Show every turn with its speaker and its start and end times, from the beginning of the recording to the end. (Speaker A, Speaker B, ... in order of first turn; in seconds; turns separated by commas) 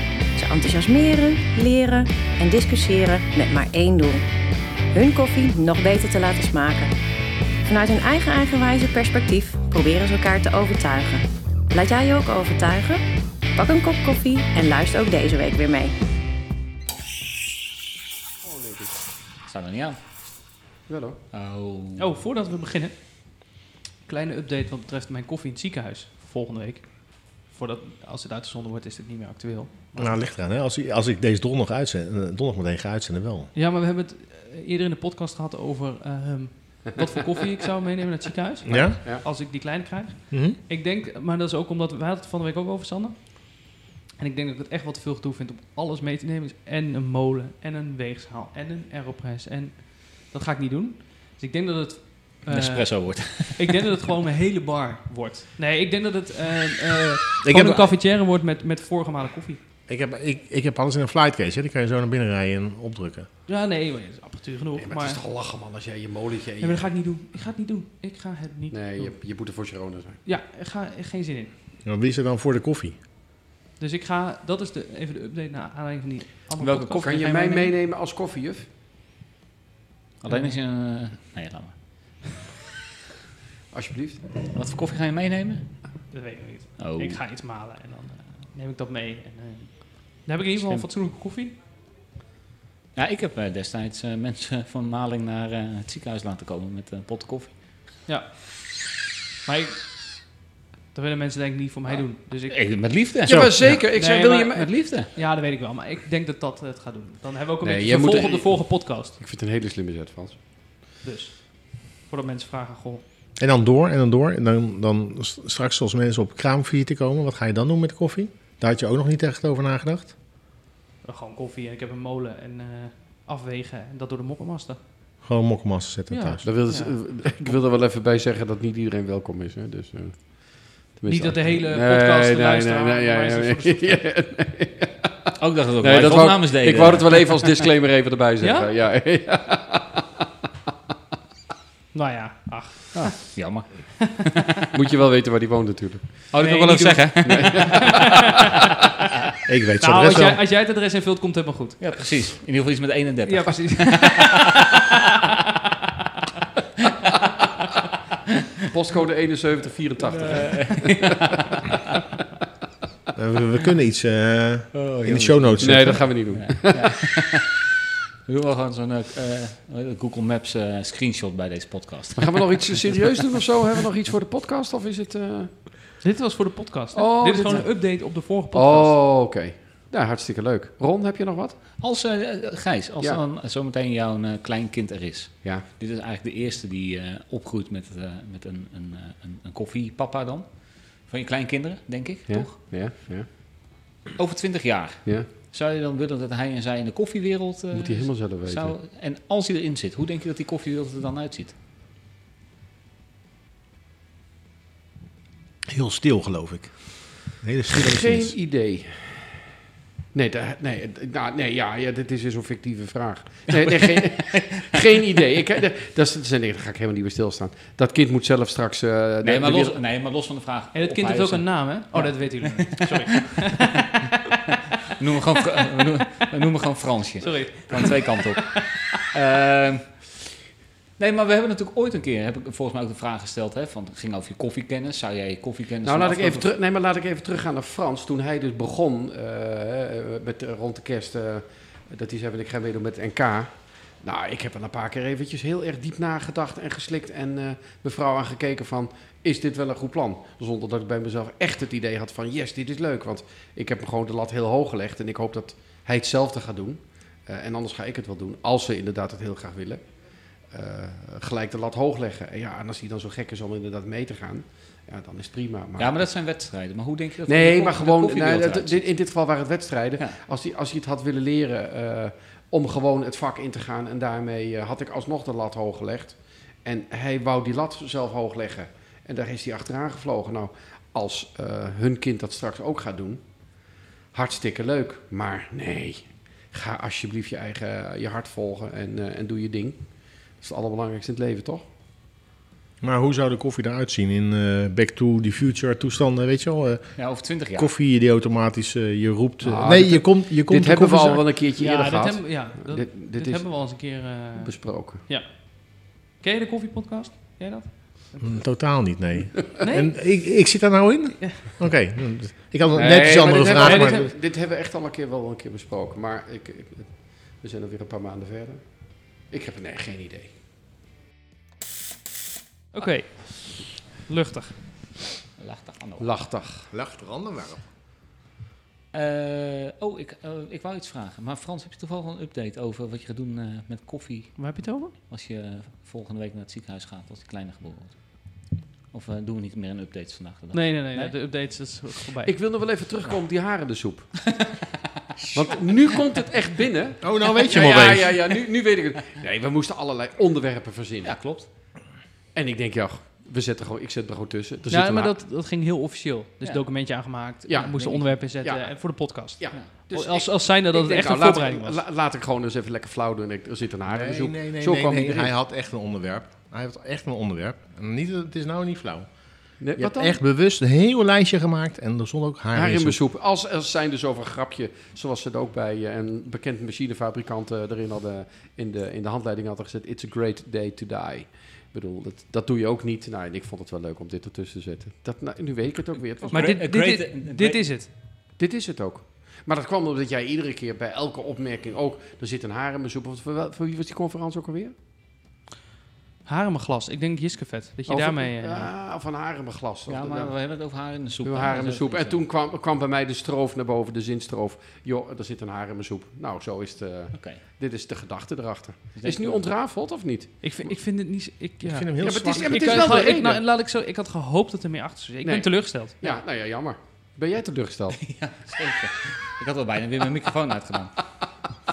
Speaker A: 0.4-4.2, Speaker A: 4.9-6.9, Speaker A: 7.7-13.0, Speaker A: 13.6-15.9, Speaker B: 18.4-18.9, Speaker C: 19.5-20.0, Speaker B: 20.9-21.2, Speaker C: 21.3-22.1, Speaker D: 22.0-30.2, Speaker E: 30.0-33.5, Speaker D: 33.5-59.6, Speaker E: 38.7-39.0, Speaker B: 38.7-39.2, Speaker E: 40.3-40.6, Speaker C: 52.5-53.9, Speaker E: 57.4-58.0, Speaker E: 59.9-63.3, Speaker D: 63.5-65.2, Speaker B: 64.8-66.9, Speaker D: 66.6-69.1, Speaker B: 68.7-70.2, Speaker D: 70.2-71.5, Speaker E: 71.8-73.0, Speaker D: 73.8-77.7, Speaker C: 76.6-77.3, Speaker B: 77.0-78.7, Speaker C: 80.2-81.8, Speaker D: 80.3-80.6, Speaker B: 83.7-84.2, Speaker C: 84.5-85.7, Speaker D: 86.1-91.6, Speaker C: 86.8-87.2, Speaker C: 90.6-90.9, Speaker C: 93.0-97.6, Speaker D: 98.1-98.4, Speaker D: 99.5-99.9, Speaker D: 100.9-102.6, Speaker C: 102.5-103.7, Speaker B: 103.3-104.7, Speaker E: 103.3-103.8, Speaker D: 103.9-109.2, Speaker C: 104.5-105.1, Speaker B: 107.6-110.4, Speaker D: 111.0-113.0, Speaker E: 113.4-120.2, Speaker D: 121.0-124.8, Speaker E: 125.2-126.5, Speaker D: 126.1-127.0, Speaker B: 126.4-135.3, Speaker D: 131.1-134.0, Speaker C: 135.4-137.5, Speaker B: 135.8-140.1, Speaker D: 138.4-138.7, Speaker D: 141.9-143.3, Speaker C: 142.9-144.7, Speaker B: 144.7-146.3, Speaker C: 146.3-147.9, Speaker D: 146.4-148.6, Speaker B: 147.2-148.1, Speaker E: 149.5-150.4, Speaker D: 149.8-152.0, Speaker C: 151.8-154.8, Speaker D: 153.3-155.1, Speaker B: 158.7-161.2, Speaker C: 160.0-161.8, Speaker E: 163.2-166.1, Speaker C: 164.8-167.6, Speaker B: 165.6-167.1, Speaker C: 168.3-173.1, Speaker B: 172.2-175.6, Speaker D: 176.0-179.0, Speaker B: 176.9-181.6, Speaker C: 181.8-192.7, Speaker B: 192.3-193.3, Speaker C: 194.2-201.6, Speaker B: 197.7-198.8, Speaker E: 205.7-208.4, Speaker B: 207.7-209.2, Speaker B: 210.1-219.8, Speaker C: 213.6-214.7, Speaker C: 219.2-223.4, Speaker D: 220.7-224.3, Speaker C: 224.8-230.4, Speaker D: 227.2-229.1, Speaker C: 231.0-236.5, Speaker B: 235.8-259.9, Speaker B: 260.4-266.0, Speaker C: 265.8-268.9, Speaker B: 267.3-283.2, Speaker B: 284.1-289.8, Speaker B: 290.4-291.6, Speaker E: 292.8-297.0, Speaker C: 297.0-297.7, Speaker E: 297.6-301.3, Speaker B: 299.4-303.5, Speaker D: 301.6-308.4, Speaker B: 304.4-305.0, Speaker E: 308.2-314.1, Speaker D: 309.6-310.0, Speaker B: 312.7-318.6, Speaker D: 313.6-314.1, Speaker B: 319.3-320.3, Speaker D: 322.7-324.6, Speaker C: 325.4-326.1, Speaker B: 326.0-326.7, Speaker E: 326.7-327.7, Speaker C: 328.9-334.6, Speaker D: 334.4-334.9, Speaker C: 335.1-338.2, Speaker C: 338.9-341.2, Speaker D: 340.5-342.3, Speaker B: 342.2-344.2, Speaker C: 344.3-344.6, Speaker C: 345.2-345.9, Speaker B: 345.3-351.1, Speaker E: 347.0-348.2, Speaker C: 351.0-351.5, Speaker B: 352.4-355.1, Speaker D: 354.7-361.8, Speaker B: 357.5-365.3, Speaker C: 357.6-358.1, Speaker E: 363.9-369.1, Speaker B: 369.6-370.2, Speaker E: 369.8-373.0, Speaker B: 372.5-386.6, Speaker C: 386.2-387.7, Speaker D: 386.3-387.9, Speaker B: 388.4-394.7, Speaker D: 396.3-398.7, Speaker B: 397.9-400.3, Speaker C: 399.9-402.2, Speaker B: 401.2-410.4, Speaker C: 407.1-407.4, Speaker C: 409.0-409.5, Speaker D: 410.4-416.0, Speaker E: 411.6-413.1, Speaker B: 412.0-413.4, Speaker B: 415.2-418.0, Speaker C: 418.0-421.0